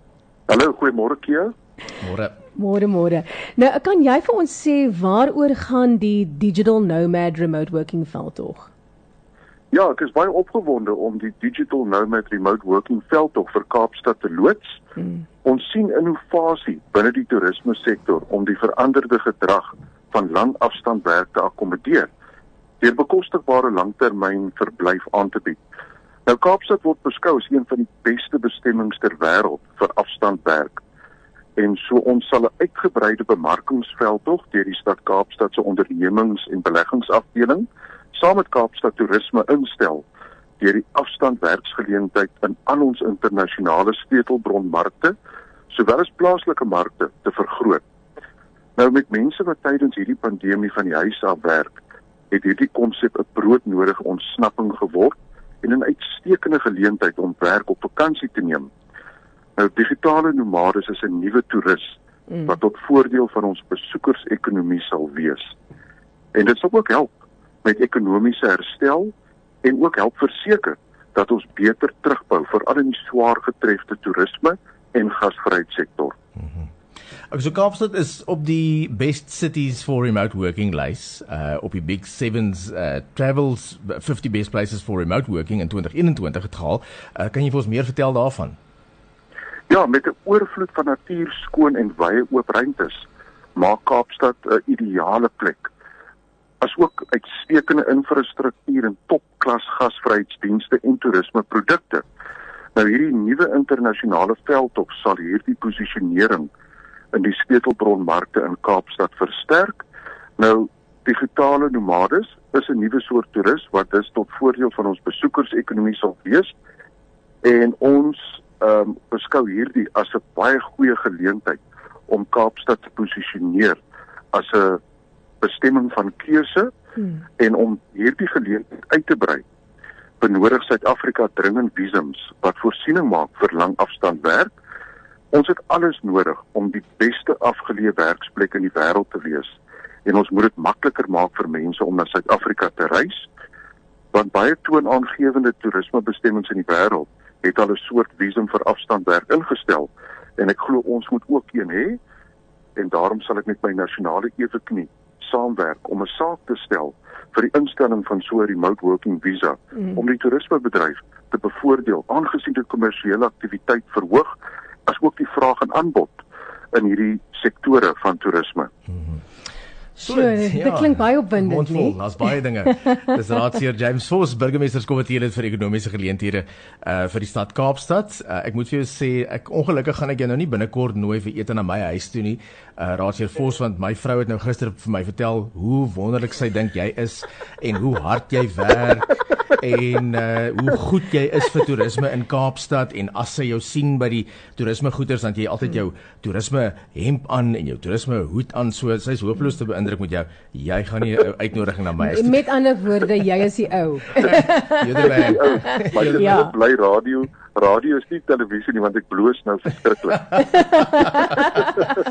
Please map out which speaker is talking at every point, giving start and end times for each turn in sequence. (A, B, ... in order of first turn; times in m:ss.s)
0:00.5-0:01.5 A
0:02.0-0:02.4 B
0:02.6-0:08.7 C
0:09.7-0:14.8 A
0:15.4-0:22.1 A
0:22.8-0:25.6 A
0:26.3-0:30.8 A
0:31.6-0:40.0 A
0:40.6-0:45.2 A
0:45.7-0:47.8 A
0:48.8-0:51.8 A
0:52.3-0:58.7 A
0:59.6-1:05.5 A
1:06.3-1:07.1 A
1:07.6-1:16.2 A
1:16.4-1:16.7 B
1:17.3-1:28.6 B
1:29.7-1:35.7 A
1:36.6-1:42.0 A
1:42.8-1:46.5 A
1:47.1-1:49.8 A
1:50.4-1:56.5 A
1:57.4-2:03.8 A
2:04.3-2:04.8 A
2:05.4-2:06.7 A
2:07.4-2:09.4 A
2:10.2-2:14.5 A
2:15.3-2:23.2 A
2:24.1-2:32.0 A
2:32.8-2:44.3 A
2:44.9-2:48.7 A
2:48.9-2:49.2 B
2:50.0-3:22.4 B
2:50.0-2:52.0 C
3:22.0-3:26.5 C
3:24.2-3:26.4 B
3:25.2-3:30.4 A
3:30.4-3:31.9 C